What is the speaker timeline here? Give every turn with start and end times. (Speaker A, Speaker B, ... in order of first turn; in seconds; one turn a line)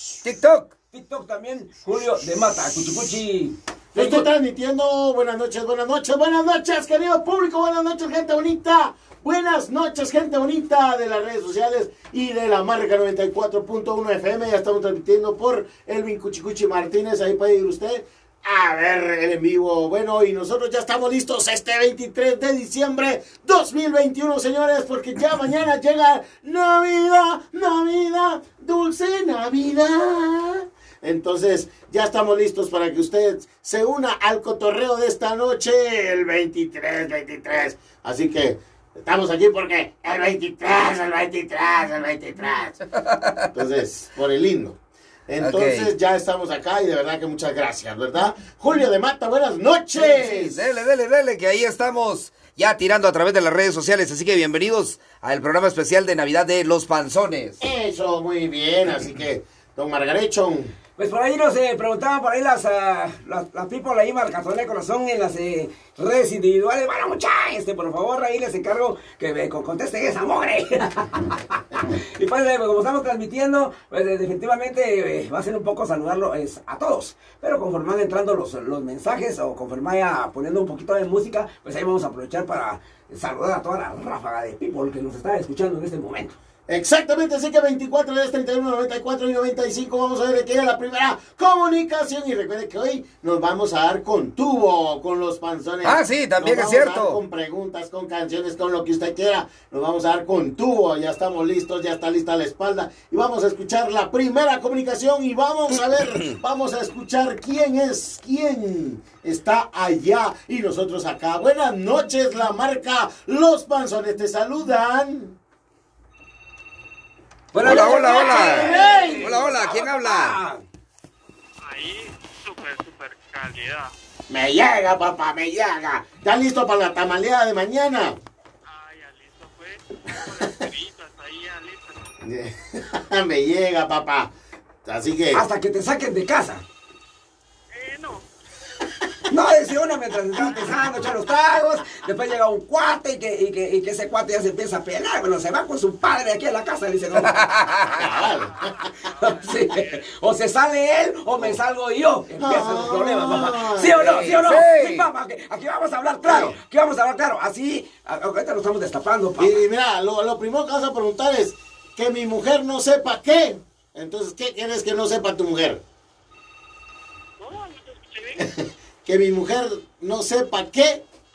Speaker A: 0.2-0.7
Speaker B: 0.9-4.3
Speaker C: 3.9-42.8
Speaker A: 43.0-43.5
Speaker C: 43.5-50.6
Speaker A: 45.4-45.9
Speaker A: 50.0-57.6
Speaker C: 57.6-60.7
Speaker B: 61.0-86.3
Speaker C: 86.7-115.3
Speaker A: 95.8-97.2
Speaker B: 117.5-120.6
Speaker A: 117.6-120.4
Speaker C: 117.8-119.3
Speaker D: 121.6-123.9
Speaker C: 124.3-128.2
Speaker D: 128.7-132.1
Speaker C: 132.2-134.3
Speaker C: 134.8-135.4
Speaker B: 135.3-136.6
Speaker D: 137.7-138.2
Speaker B: 139.3-147.4
Speaker A: 147.2-148.1
Speaker C: 148.0-148.7
Speaker D: 148.0-150.0
Speaker B: 149.2-159.6
Speaker C: 152.4-154.3
Speaker A: 154.0-155.1
Speaker C: 156.2-156.6
Speaker C: 159.4-165.8
Speaker D: 167.4-168.4
Speaker C: 168.4-171.0